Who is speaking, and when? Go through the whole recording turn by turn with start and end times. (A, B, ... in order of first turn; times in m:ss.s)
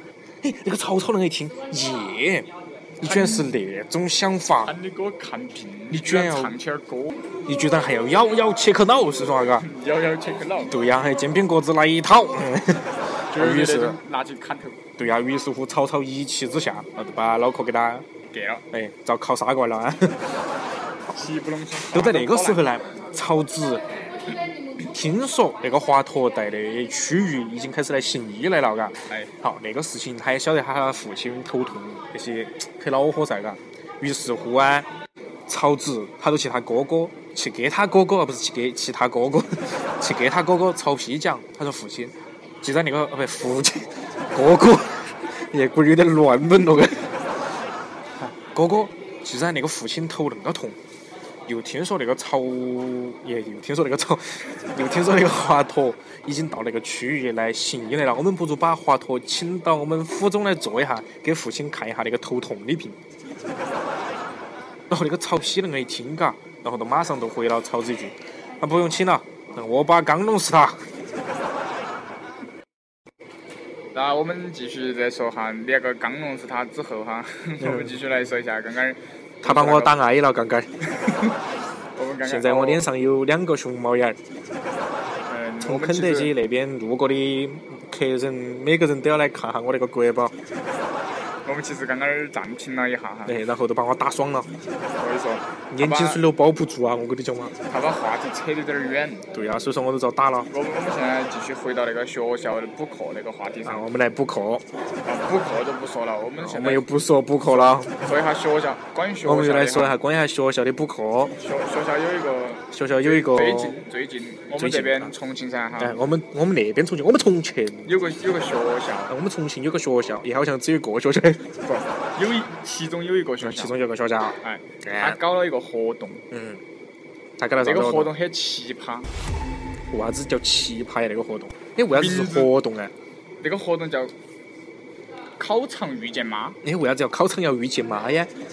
0:00.4-0:04.7 A
0:03.0-0:03.5 B
0:04.6-0:07.2 B
0:05.9-0:06.5 A
0:07.4-0:09.7 A
0:09.6-0:10.7 B
0:10.7-0:14.0 A
0:13.3-0:14.8 B
0:15.0-0:18.0 A
0:18.3-0:18.6 B
0:18.7-0:20.2 A
0:21.1-0:22.7 B
0:21.9-0:23.8 A
0:24.8-0:34.9 A
0:35.5-0:47.2 A
0:48.2-0:50.8 A
0:51.5-1:03.0 A
1:04.9-1:10.9 A
1:13.9-1:20.0 B
1:17.6-1:18.0 A
1:19.4-1:20.7 A
1:21.9-1:22.8 B
1:22.2-1:24.2 A
1:25.2-1:26.3 B
1:25.6-1:30.3 A
1:31.4-1:33.4 B
1:33.2-1:34.5 A
1:35.0-1:36.2 B
1:35.7-1:37.5 A
1:37.7-1:39.2 B
1:39.3-1:40.5 A
1:40.5-1:43.8 B
1:43.6-1:44.7 A
1:45.0-1:46.8 B
1:46.4-1:48.1 A
1:47.4-1:50.0 B
1:49.2-1:51.4 A
1:51.4-1:56.0 B
1:52.7-1:53.8 A
1:54.6-1:55.1 A
1:55.8-1:57.9 A
1:57.8-1:59.1 B
1:59.1-2:01.5 A
2:01.6-2:03.7 B
2:03.4-2:05.2 A
2:04.4-2:06.2 B
2:06.3-2:06.6 A
2:07.4-2:08.1 A
2:07.6-2:09.1 B
2:09.9-2:12.9 A
2:11.9-2:12.5 B
2:13.4-2:14.1 B
2:15.4-2:16.6 B
2:16.6-2:18.3 A